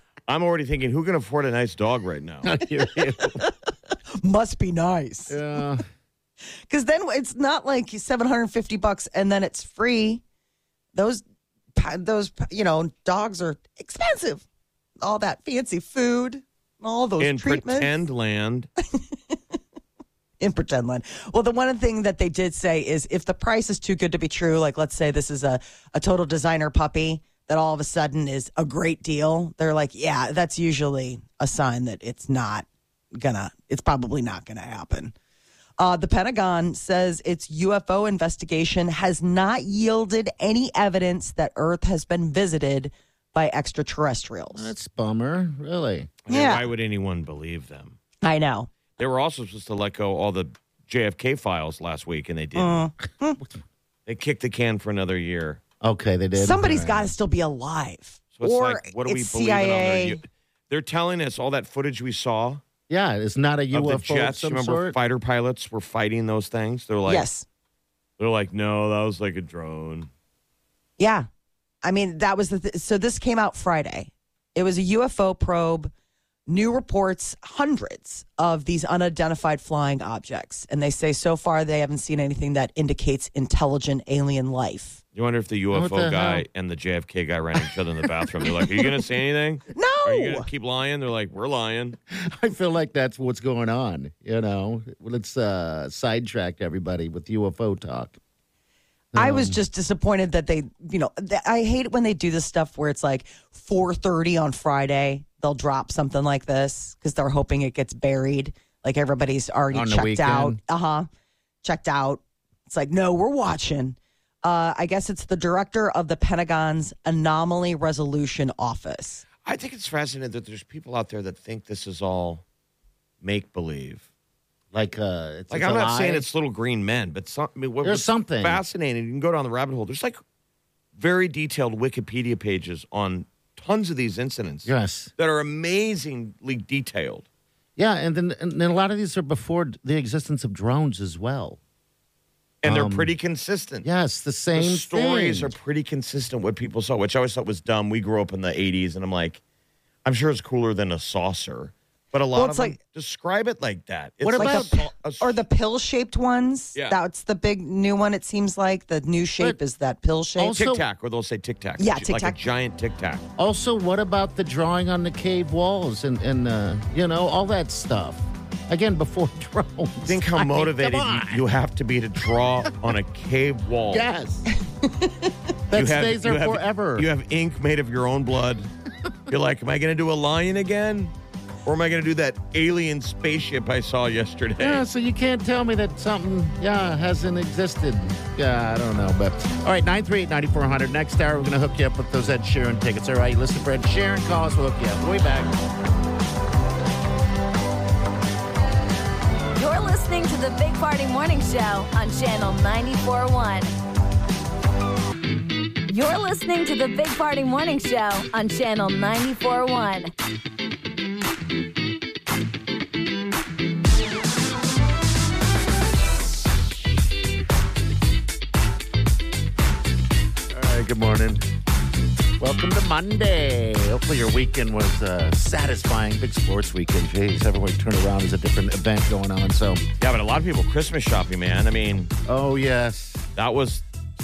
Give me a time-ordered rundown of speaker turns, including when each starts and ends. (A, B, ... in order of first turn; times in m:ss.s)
0:00.3-0:02.6 A
0:02.4-0:03.4 B
0:04.2-0:05.4 C
0:05.3-0:05.8 B
0:06.6-0:10.2 C
0:11.0-0:11.2 C
0:11.8-0:14.4 C
0:15.0-0:17.9 C
0:17.2-0:18.7 A
0:19.0-0:19.4 C
0:20.4-0:35.1 C
0:35.8-0:44.7 C
0:44.5-0:46.1 B
0:46.3-0:48.0 A
0:46.3-0:46.7 C
0:48.2-0:48.7 C
0:49.0-0:52.8 A
0:52.6-0:53.4 C
0:54.1-0:55.6 A
0:55.8-0:57.1 B
0:56.4-1:00.2 C
0:58.4-1:02.6 A
1:02.9-1:05.0 B
1:03.7-1:07.3 A
1:07.1-1:07.4 C
1:08.2-1:10.1 A
1:11.0-1:11.3 C
1:11.8-1:15.9 C
1:16.5-1:25.0 C
1:25.2-1:32.0 A
1:25.7-1:26.4 B
1:29.7-1:30.5 C
1:32.1-1:38.2 B
1:39.1-1:39.6 B
1:39.2-1:51.1 C
1:49.7-1:50.6 B
1:51.6-1:59.2 C
1:59.4-2:02.4 A
2:03.2-2:04.0 A
2:04.7-2:06.3 B
2:05.5-2:10.2 A
2:07.8-2:08.6 B
2:11.0-2:17.2 A
2:14.7-2:15.1 B
2:17.8-2:21.6 B
2:22.6-2:23.9 A
2:22.6-2:23.1 B
2:23.8-2:25.5 B
2:24.5-2:29.4 A
2:30.0-2:35.4 A
2:32.3-2:32.8 C
2:34.2-2:34.8 B
2:34.4-2:40.6 C
2:40.4-2:40.8 B
2:40.5-2:43.3 A
2:41.8-2:42.4 C
2:43.4-2:51.4 B
2:50.1-2:54.1 A
2:53.9-2:54.5 B
2:54.8-2:55.3 C
2:55.7-2:57.1 B
2:55.7-2:58.7 A
2:59.3-3:01.1 A
3:01.6-3:04.8 A
3:04.6-3:15.5 B
3:19.6-3:23.7 D
3:25.9-3:30.1 D
3:40.5-3:41.4 B
3:42.4-3:49.8 B
3:50.0-3:52.1 A
3:52.3-3:53.2 B
3:53.4-3:53.8 A